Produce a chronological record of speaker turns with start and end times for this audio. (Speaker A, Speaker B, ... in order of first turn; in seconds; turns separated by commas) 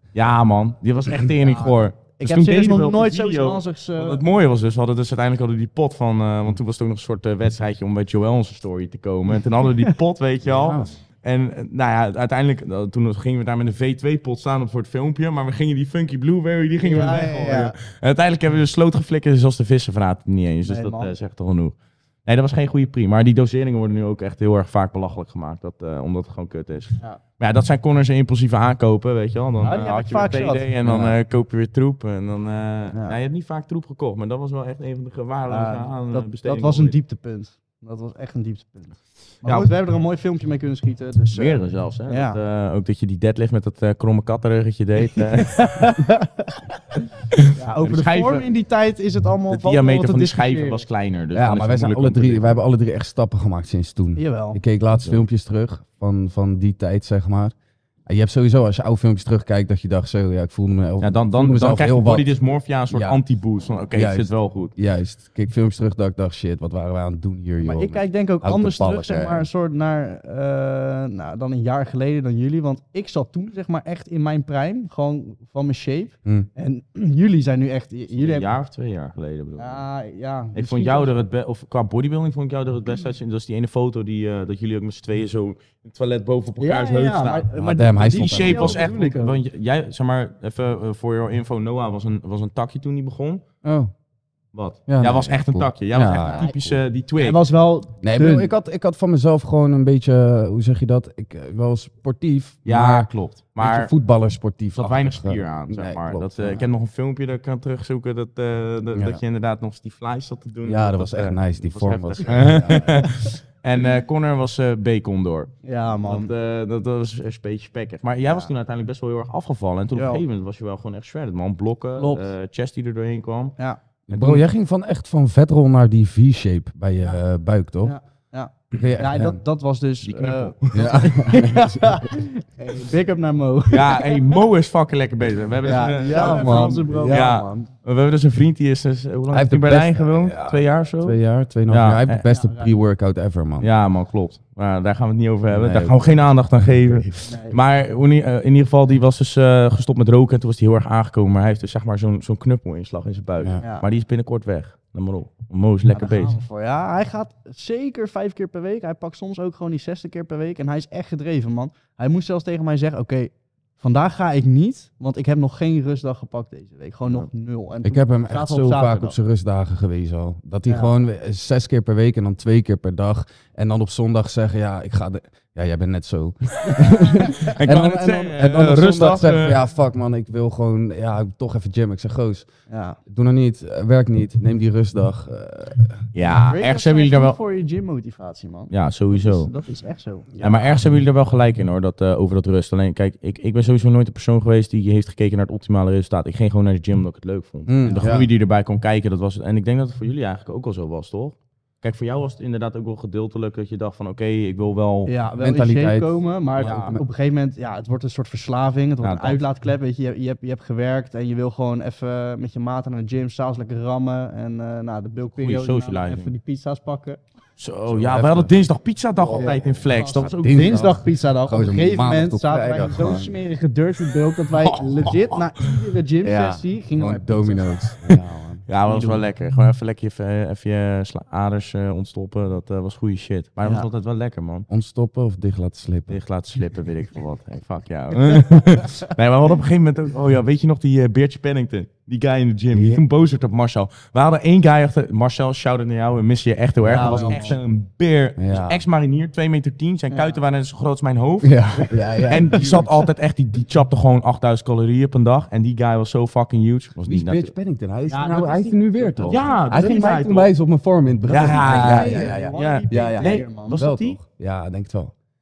Speaker A: 0.1-21.8, Speaker B: 1.4-4.2, Speaker C: 10.5-10.9, Speaker B: 16.8-17.8, Speaker B: 20.6-21.1, Speaker A: 22.3-37.0, Speaker B: 29.6-30.7, Speaker C: 30.8-31.2, Speaker B: 35.5-42.4, Speaker A: 39.4-39.7, Speaker A: 41.3-45.9, Speaker B: 45.0-47.0, Speaker A: 47.3-48.5, Speaker B: 47.5-50.8, Speaker A: 49.5-52.6, Speaker C: 51.3-57.5, Speaker B: 54.2-54.6, Speaker C: 58.1-62.3, Speaker A: 61.0-64.7, Speaker C: 62.9-63.2, Speaker C: 63.9-69.5, Speaker B: 67.6-78.5, Speaker A: 78.2-79.8, Speaker B: 79.6-81.1, Speaker A: 80.5-87.5, Speaker B: 86.6-89.4, Speaker C: 87.6-88.8, Speaker A: 88.1-93.4, Speaker C: 93.6-93.9, Speaker A: 94.5-97.4, Speaker C: 94.9-96.8, Speaker B: 97.2-98.5, Speaker C: 98.0-106.7, Speaker A: 102.7-103.9, Speaker A: 104.8-115.5, Speaker C: 108.9-109.2, Speaker C: 110.7-113.1, Speaker B: 112.7-113.3, Speaker B: 115.6-116.3, Speaker A: 116.0-123.6, Speaker B: 120.0-120.2, Speaker B: 122.0-122.3, Speaker C: 124.1-128.0, Speaker A: 124.1-124.4, Speaker B: 127.8-134.2, Speaker C: 128.7-129.4, Speaker A: 130.0-130.9, Speaker C: 130.7-132.0, Speaker A: 133.7-141.2, Speaker B: 135.6-137.7, Speaker C: 136.1-137.3, Speaker C: 139.3-143.7, Speaker A: 141.7-142.2, Speaker B: 142.2-142.8, Speaker A: 143.6-156.3, Speaker C: 145.5-146.0, Speaker C: 146.6-147.2, Speaker B: 147.2-147.6, Speaker B: 153.6-153.8, Speaker B: 155.9-169.2, Speaker C: 167.8-182.5, Speaker B: 170.7-170.9, Speaker B: 176.7-177.6, Speaker A: 177.4-179.6, Speaker B: 182.7-183.0, Speaker C: 183.1-186.0, Speaker A: 186.1-187.4, Speaker B: 186.2-190.3, Speaker A: 188.7-189.5, Speaker C: 190.4-190.8, Speaker A: 190.4-205.1, Speaker C: 197.7-198.3, Speaker B: 205.1-217.2, Speaker C: 205.4-207.0, Speaker A: 206.6-207.0, Speaker A: 209.0-209.4, Speaker A: 215.3-216.3, Speaker A: 217.6-220.9, Speaker C: 217.9-218.6, Speaker C: 219.2-219.6, Speaker B: 219.3-227.7, Speaker C: 220.2-223.3, Speaker A: 224.6-225.6, Speaker C: 226.2-228.7, Speaker A: 228.7-234.7, Speaker B: 228.9-229.2, Speaker C: 234.7-236.2, Speaker A: 236.1-257.5, Speaker C: 242.7-243.0, Speaker C: 246.8-247.6, Speaker B: 246.9-247.6, Speaker C: 248.4-248.8, Speaker B: 250.1-250.4, Speaker C: 251.4-253.0, Speaker C: 257.1-265.1, Speaker B: 258.1-260.2, Speaker A: 259.2-260.5, Speaker A: 261.3-264.2, Speaker B: 261.4-263.8